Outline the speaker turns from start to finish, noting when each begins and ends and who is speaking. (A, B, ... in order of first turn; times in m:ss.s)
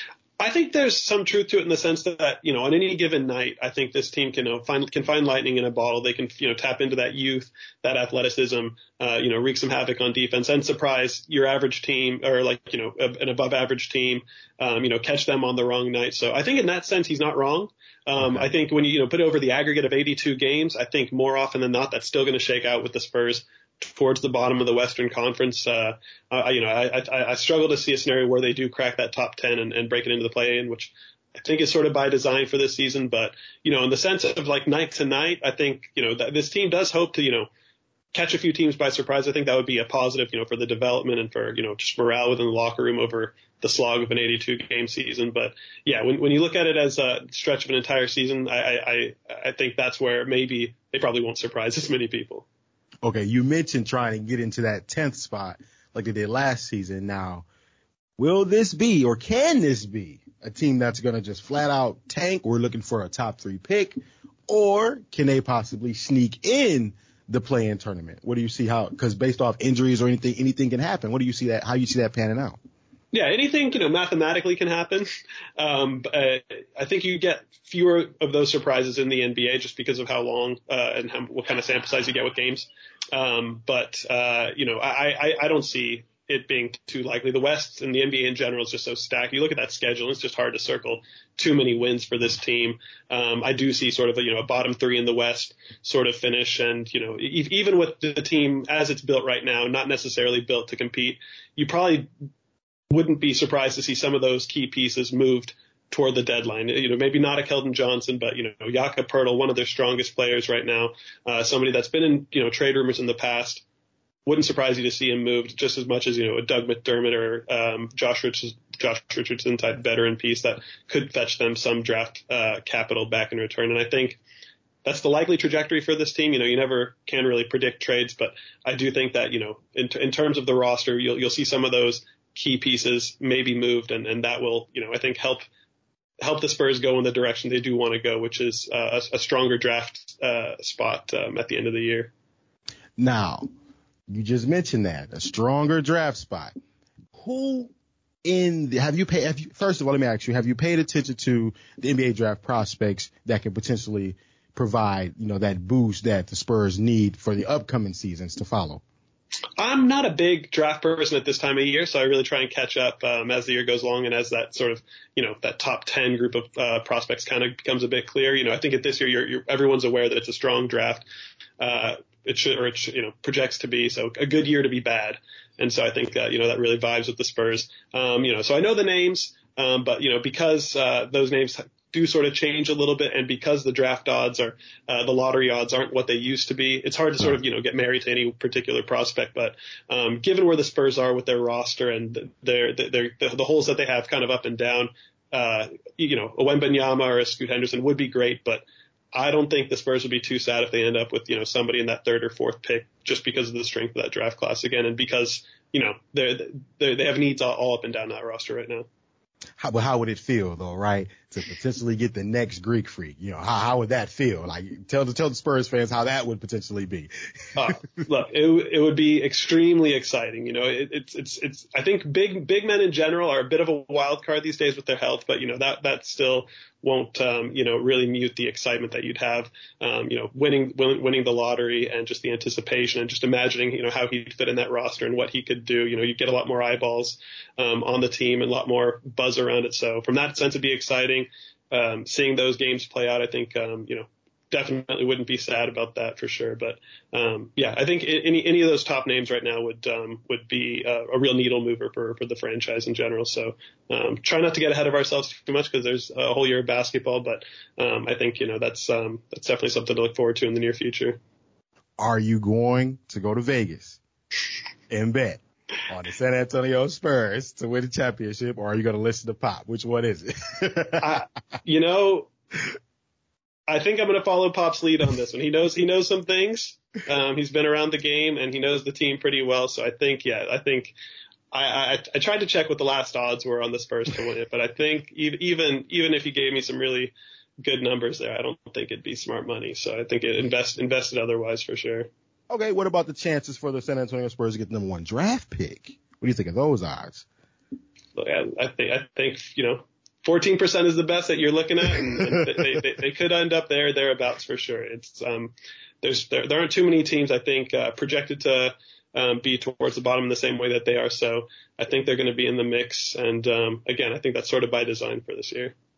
0:00.4-0:37.5 A
0:18.2-0:18.4 B
0:38.1-0:52.4 A
0:53.0-0:57.4 B
0:58.2-1:12.6 B
1:13.1-1:42.1 A
1:42.9-1:53.6 A
1:54.2-2:04.2 A
2:04.8-2:15.4 A
2:16.2-2:22.1 A
2:23.0-2:23.5 B
2:24.1-2:26.5 B
2:27.1-2:27.7 B
2:28.2-2:38.8 B
2:39.6-2:51.0 A
2:51.6-3:28.9 A
3:29.6-3:37.1 B
3:37.5-4:21.2 A
4:22.0-4:24.0 B
4:24.9-4:31.2 B
4:31.0-4:32.3 A
4:33.7-4:40.9 A
4:41.5-4:52.1 A
4:52.5-4:57.2 B
4:58.2-5:15.7 A